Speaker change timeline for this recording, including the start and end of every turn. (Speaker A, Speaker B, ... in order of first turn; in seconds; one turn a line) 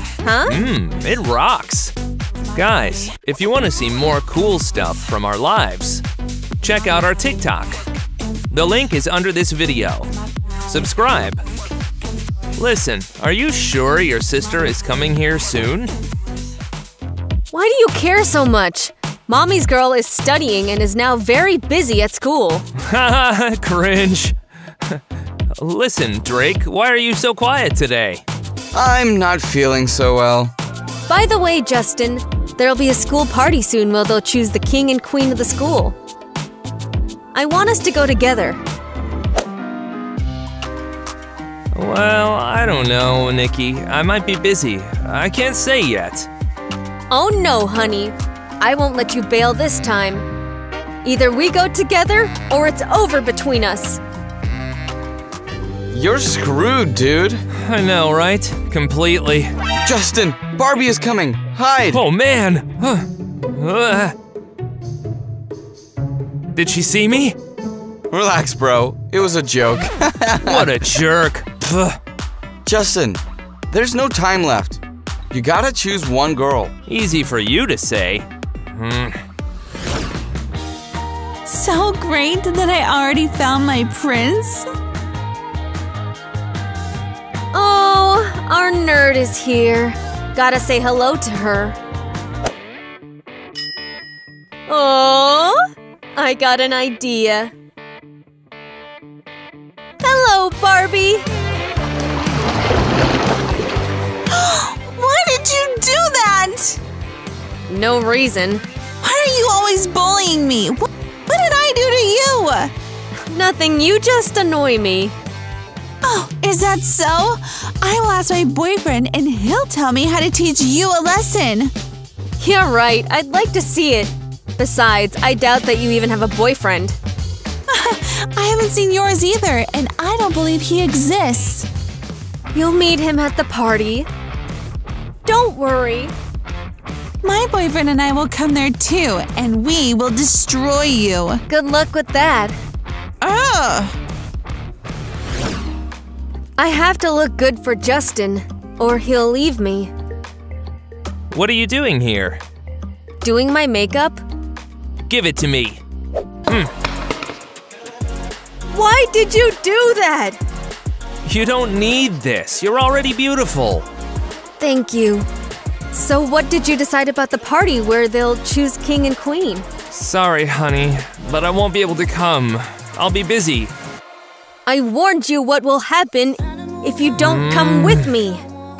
Speaker A: 0.2-0.6
Speaker B: 0.5-1.9
Speaker B: 2.5-6.0
Speaker B: 6.6-7.8
Speaker B: 8.5-10.1
Speaker B: 10.7-11.4
Speaker B: 12.6-15.9
Speaker A: 17.5-22.7
Speaker B: 22.8-25.0
Speaker B: 25.6-28.2
Speaker C: 28.7-30.5
Speaker A: 31.1-36.0
Speaker A: 37.3-38.6
Speaker B: 41.7-46.3
Speaker A: 47.1-50.3
Speaker A: 51.0-54.0
Speaker C: 55.9-57.4
Speaker B: 57.6-59.5
Speaker C: 59.9-62.0
Speaker B: 61.9-64.2
Speaker B: 66.5-67.4
Speaker C: 68.1-70.8
Speaker B: 70.4-72.0
Speaker C: 72.7-74.8
Speaker C: 75.3-76.7
Speaker B: 76.9-79.2
Speaker D: 81.5-84.7
Speaker A: 87.5-91.8
Speaker A: 94.7-95.6
Speaker A: 96.2-97.5
Speaker A: 100.0-101.2
Speaker D: 104.3-106.8
Speaker A: 107.7-108.7
Speaker D: 109.0-112.7
Speaker A: 113.3-115.2
Speaker D: 116.0-121.7
Speaker A: 122.4-127.0
Speaker D: 127.7-131.7
Speaker A: 132.5-134.1
Speaker A: 135.2-136.1
Speaker D: 137.2-141.4
Speaker A: 141.5-142.6
Speaker D: 143.2-144.0
Speaker A: 146.6-149.9
Speaker B: 151.3-152.4
Speaker A: 153.2-154.2
Speaker B: 155.1-155.8
Speaker A: 158.7-160.4
Speaker B: 161.2-163.9
Speaker A: 164.6-165.3
Speaker A: 165.9-169.7
Speaker B: 169.9-173.7
Speaker A: 174.7-178.4
Speaker B: 177.2-178.1